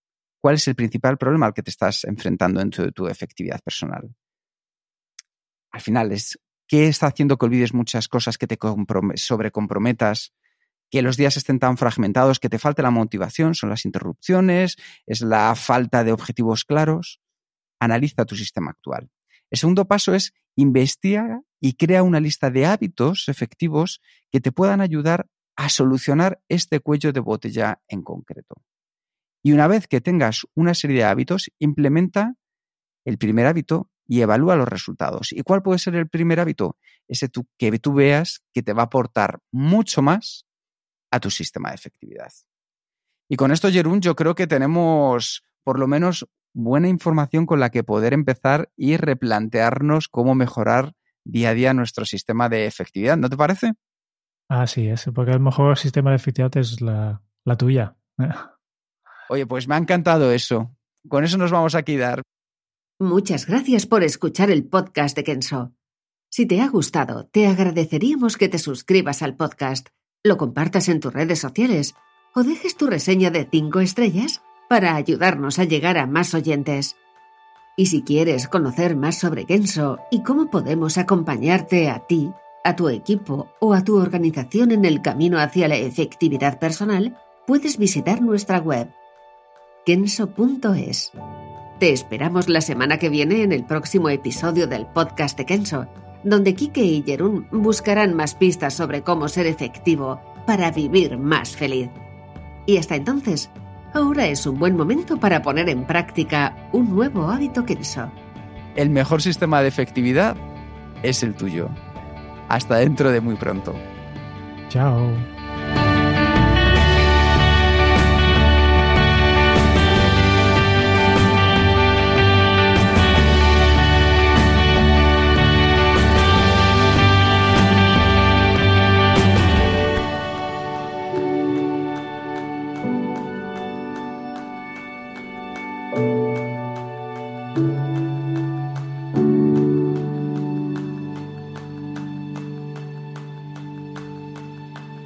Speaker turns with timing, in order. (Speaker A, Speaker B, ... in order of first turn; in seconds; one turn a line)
Speaker A: 0.4-4.1
Speaker A: 5.7-10.3
Speaker A: 10.9-17.2
Speaker A: 17.8-28.6
Speaker A: 29.4-32.4
Speaker A: 33.0-40.4
Speaker A: 41.1-42.3
Speaker A: 43.3-53.7
Speaker B: 54.5-58.5
Speaker A: 59.3-62.2
Speaker C: 63.0-65.7
Speaker C: 66.3-77.0
Speaker C: 77.8-88.9
Speaker C: 89.8-91.1
Speaker C: 91.8-102.0
Speaker C: 102.7-108.2
Speaker A: 108.8-110.4
Speaker A: 111.0-111.8
Speaker A: 112.5-113.8
Speaker B: 114.7-115.2